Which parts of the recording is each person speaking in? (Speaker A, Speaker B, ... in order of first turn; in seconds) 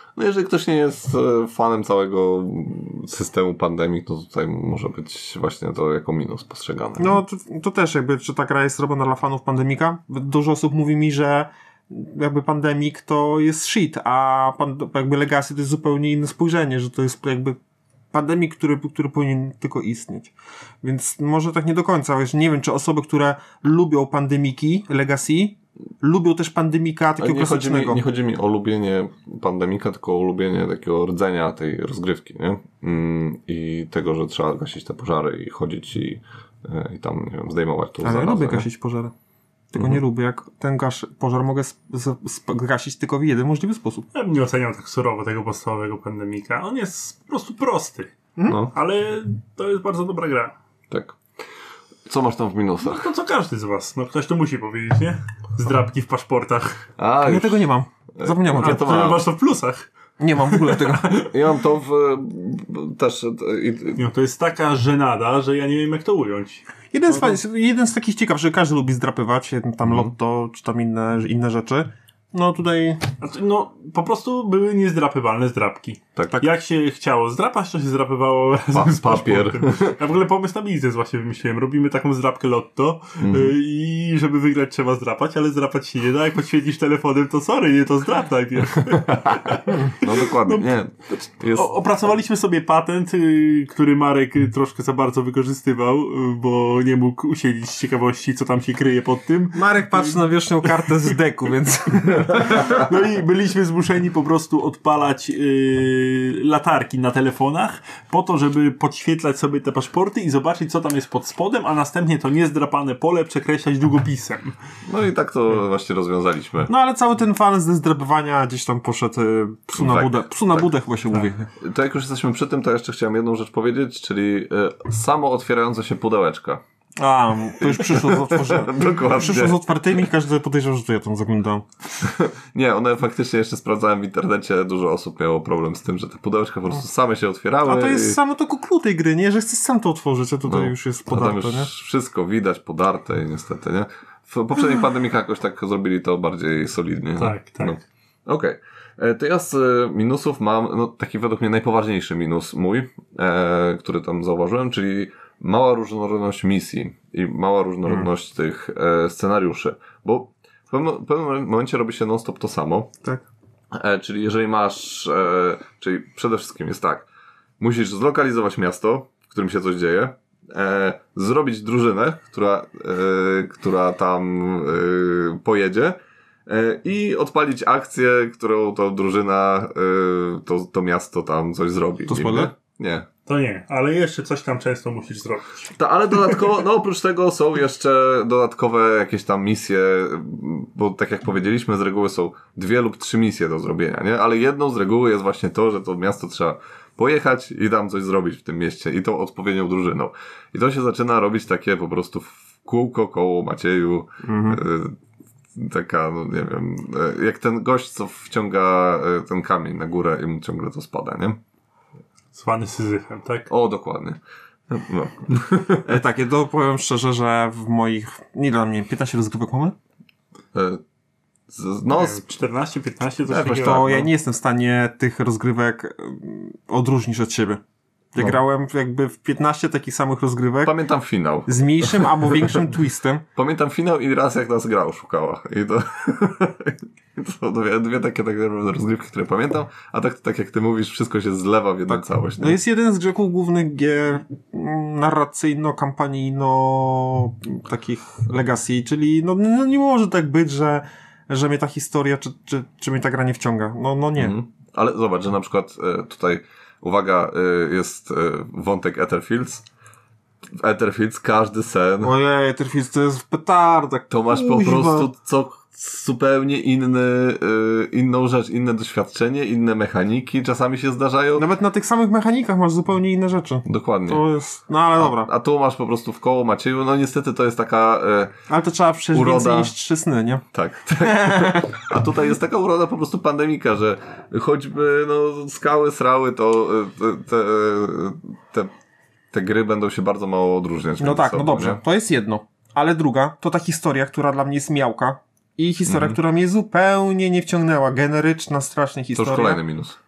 Speaker A: 0.1-7.2, 27.2-38.7, 48.5-48.7, 50.9-51.2, 52.1-53.0, 57.0-59.2, 61.2-64.0, 69.8-70.1, 76.2-76.4, 78.7-80.0, 83.2-83.5, 89.1-91.7, 114.9-116.7, 119.8-120.6, 121.6-126.6, 127.6-129.6, 132.0-138.2, 140.5-162.9, 163.7-167.1, 167.6-183.1, 185.8-205.0, 205.5-211.4, 213.5-215.9, 220.5-220.8, 221.5-222.2, 223.3-224.1, 230.6-232.5, 233.3-242.6, 254.2-259.6, 260.6-262.1, 264.1-271.4, 273.6-274.2, 275.0-278.4, 279.1-279.7, 280.5-288.7, 289.3-291.8, 295.9-296.2, 299.1-300.0
Speaker B: 7.0-17.6, 18.1-28.0, 38.0-39.1, 39.7-44.1, 57.2-59.0, 60.2-61.2, 66.9-73.0, 99.5-102.8, 116.7-121.5, 127.0-131.7, 137.6-141.7, 182.1-182.5, 204.2-204.6, 215.8-219.7, 223.6-227.6, 228.1-230.7, 231.4-233.2, 241.9-254.4, 262.0-265.1, 271.4-275.3, 278.5-280.4, 281.0-281.8, 291.0-299.6
Speaker C: 44.1-48.1, 48.7-50.5, 52.8-56.8, 58.5-59.9, 60.4-61.3, 64.0-67.4, 73.2-101.1, 102.3-114.5, 147.2-147.7, 183.2-185.7, 212.3-213.5, 221.9-223.8